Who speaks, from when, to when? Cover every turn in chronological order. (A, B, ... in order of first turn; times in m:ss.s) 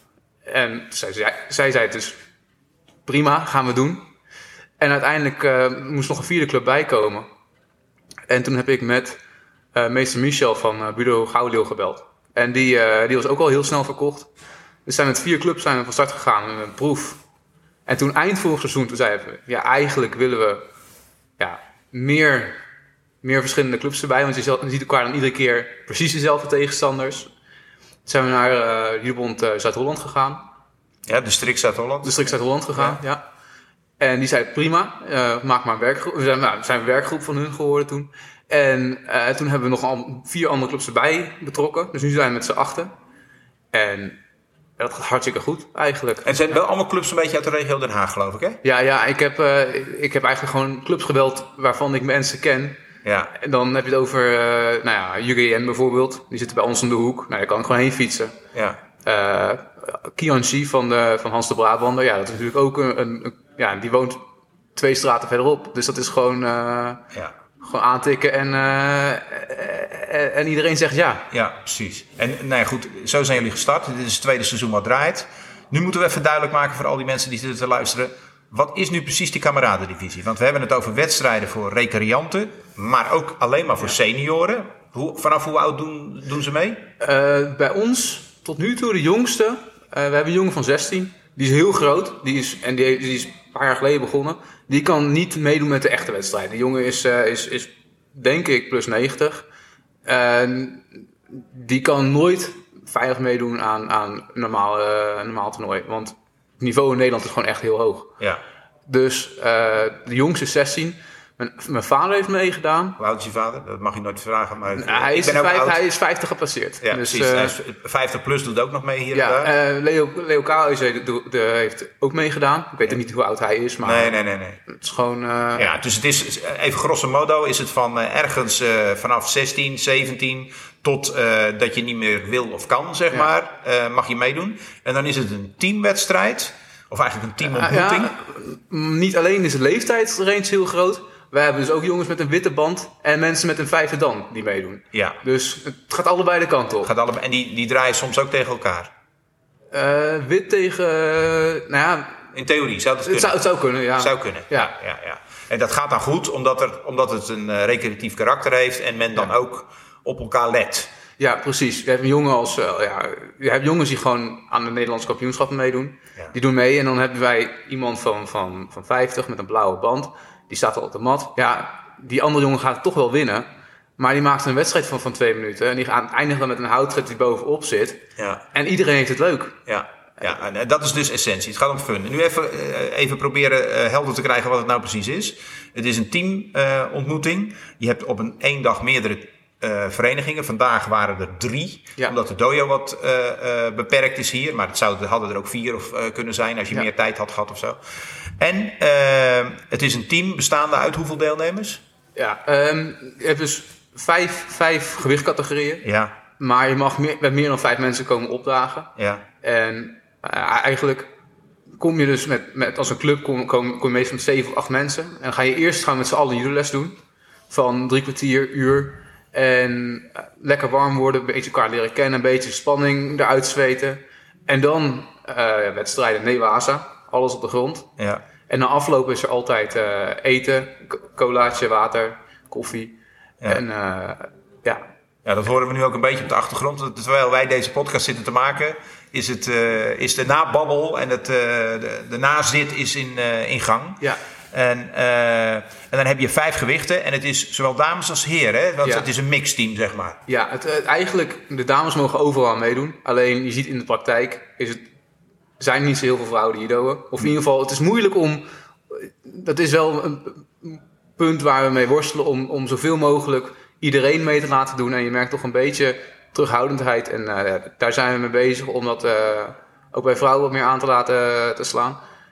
0:00.4-0:02.2 A
0:03.0-0:04.0 A
0:04.8-0:07.3 A
0:08.3-0:09.2 A
0:09.7-0:14.3 A
0:14.8-0:17.2 A
0:17.9-0:20.6 A
0:21.4-0:22.6 A
0:23.2-0:27.3 A
0:28.0-0:30.4 A
0:31.0-0:33.0 B
0:32.0-0:33.2 A
0:34.0-0:42.9 A
0:43.7-0:44.2 A
0:44.8-0:46.3 A
0:46.2-0:48.6 B
0:48.6-0:52.8 A
0:53.0-0:53.3 B
0:53.3-0:58.3 A
0:58.5-0:58.8 B
0:59.0-1:04.2 A
1:04.8-1:07.0 A
1:07.6-1:11.2 A
1:11.3-1:26.8 B
1:27.0-1:39.4 A
1:40.0-1:48.1 A
1:48.9-1:53.0 A
1:53.0-1:55.8 B
1:54.7-1:57.5 A
1:56.8-1:59.5 B
1:59.1-2:05.7 A
2:03.8-2:04.6 B
2:05.6-2:18.1 B
2:17.4-2:26.9 A
2:24.9-2:25.2 B
2:26.8-2:28.9 B
2:29.7-2:32.2 A
2:32.3-2:40.9 B
2:33.0-2:34.7 A
2:41.2-2:59.6 A
2:58.2-2:58.4 B
2:59.7-3:17.8 B
3:18.4-3:21.8 B
3:22.2-3:25.8 A
3:25.8-3:26.1 B
3:26.4-3:31.1 A
3:29.0-3:29.2 B
3:31.8-3:37.0 A
3:37.5-3:47.9 A
3:48.0-3:48.2 B
3:48.5-3:54.8 A
3:55.2-4:10.2 B
4:08.8-4:09.1 A
4:10.3-4:14.8 A
4:15.6-4:32.0 A